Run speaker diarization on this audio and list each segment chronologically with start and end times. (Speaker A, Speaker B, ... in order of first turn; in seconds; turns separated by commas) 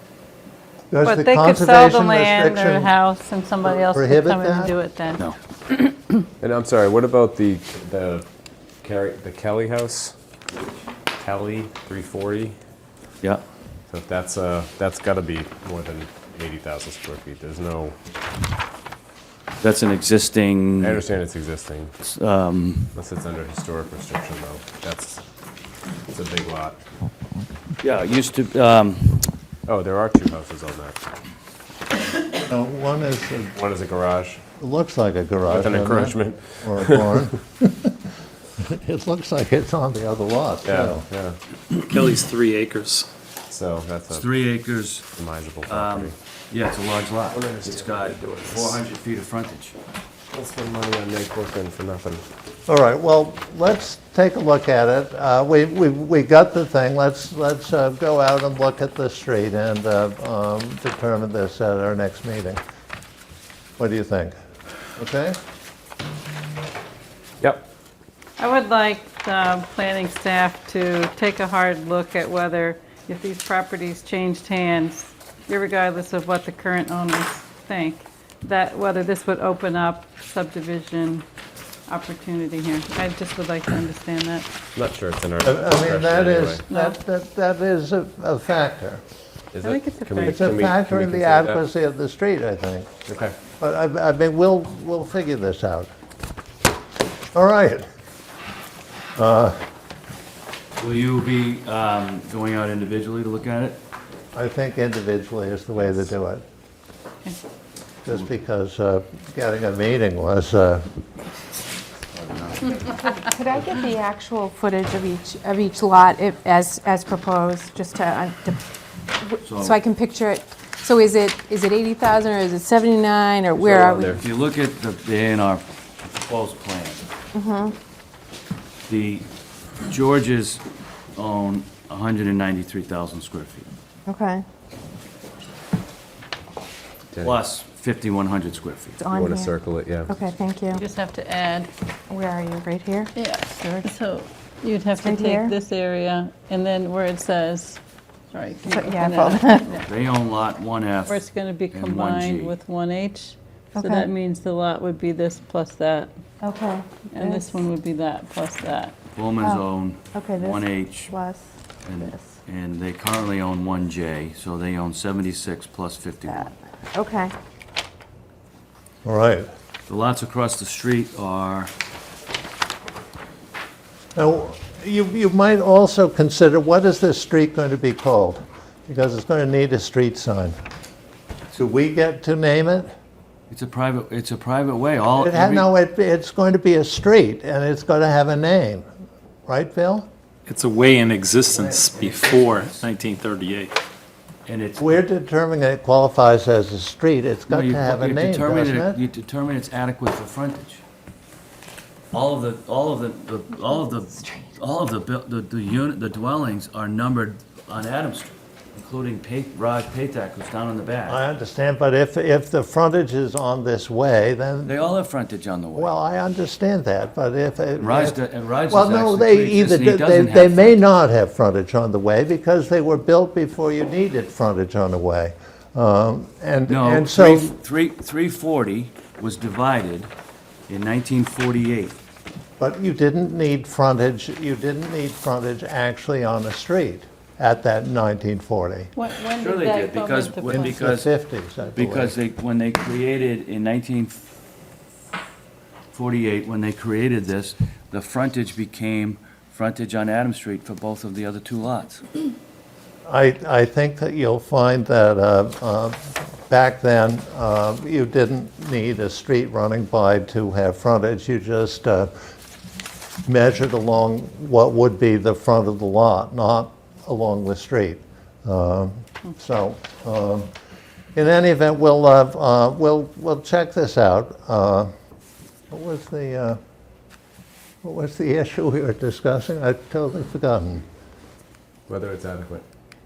Speaker A: 0.9-2.9, Speaker B: 1.0-5.3, Speaker A: 3.6-4.8, Speaker C: 6.4-8.3, Speaker C: 8.8-10.2, Speaker C: 11.2-12.6, Speaker C: 13.9-18.0, Speaker D: 19.6-21.0, Speaker C: 20.8-21.9, Speaker D: 22.0-22.9, Speaker C: 22.9-25.2, Speaker C: 26.1-26.8, Speaker D: 27.8-29.3, Speaker C: 29.7-31.0, Speaker A: 32.4-33.5, Speaker C: 33.5-34.4, Speaker A: 34.6-38.0, Speaker C: 35.5-37.1, Speaker A: 38.6-41.1, Speaker C: 40.6-41.4, Speaker E: 41.9-43.1, Speaker C: 43.5-44.3, Speaker D: 44.1-45.1, Speaker C: 45.1-46.1, Speaker D: 45.7-49.8, Speaker C: 47.3-48.8, Speaker C: 50.3-52.2, Speaker A: 52.7-62.6, Speaker A: 63.8-64.3, Speaker A: 65.0-65.4, Speaker B: 68.4-81.2, Speaker B: 81.9-84.5, Speaker C: 84.8-86.6, Speaker A: 85.4-89.0, Speaker B: 86.7-87.0, Speaker C: 89.5-91.6, Speaker B: 89.6-90.6, Speaker A: 90.2-92.9, Speaker C: 93.1-93.4, Speaker A: 93.6-95.9, Speaker A: 97.3-97.8, Speaker A: 99.2-99.6, Speaker D: 100.8-103.8, Speaker A: 104.3-106.4, Speaker A: 108.0-110.8, Speaker D: 112.1-113.0, Speaker F: 113.1-118.6, Speaker F: 119.2-124.2, Speaker D: 119.4-119.8, Speaker C: 123.6-124.2, Speaker D: 123.7-127.0, Speaker F: 127.3-127.8, Speaker D: 128.9-129.3, Speaker D: 129.9-130.6, Speaker D: 131.2-133.7, Speaker F: 134.1-134.4, Speaker D: 137.2-139.0, Speaker F: 139.0-140.8, Speaker C: 139.1-140.2, Speaker B: 140.7-141.7, Speaker F: 142.1-143.9, Speaker B: 143.2-147.8, Speaker F: 145.0-145.5, Speaker B: 148.3-149.8, Speaker F: 148.7-149.8, Speaker D: 149.8-151.2, Speaker B: 151.1-156.1, Speaker D: 151.7-152.6, Speaker F: 153.8-154.1, Speaker F: 156.4-157.6, Speaker B: 157.1-159.0, Speaker D: 159.1-161.1, Speaker F: 160.1-161.5, Speaker D: 161.8-166.5, Speaker F: 162.0-162.3, Speaker F: 166.3-167.3, Speaker A: 169.1-169.5, Speaker D: 169.9-171.7, Speaker A: 174.2-180.6, Speaker A: 181.5-182.9, Speaker D: 183.5-185.7, Speaker A: 185.2-188.9, Speaker A: 189.5-190.1, Speaker E: 190.5-193.7, Speaker A: 191.6-191.9, Speaker D: 191.9-192.8, Speaker D: 194.5-195.0, Speaker A: 194.8-199.0, Speaker D: 197.5-200.8, Speaker D: 202.1-211.2, Speaker A: 211.1-214.8, Speaker D: 214.6-215.9, Speaker A: 215.7-227.5, Speaker D: 217.8-220.8, Speaker D: 226.7-230.1, Speaker D: 230.7-232.0, Speaker A: 232.6-238.9, Speaker B: 238.9-240.8, Speaker D: 239.4-241.1, Speaker A: 240.5-242.2, Speaker D: 241.8-244.3, Speaker D: 245.9-252.0, Speaker A: 253.1-262.1, Speaker A: 263.3-270.5, Speaker A: 271.1-274.9, Speaker A: 275.7-276.6, Speaker A: 277.8-280.9, Speaker C: 281.9-282.6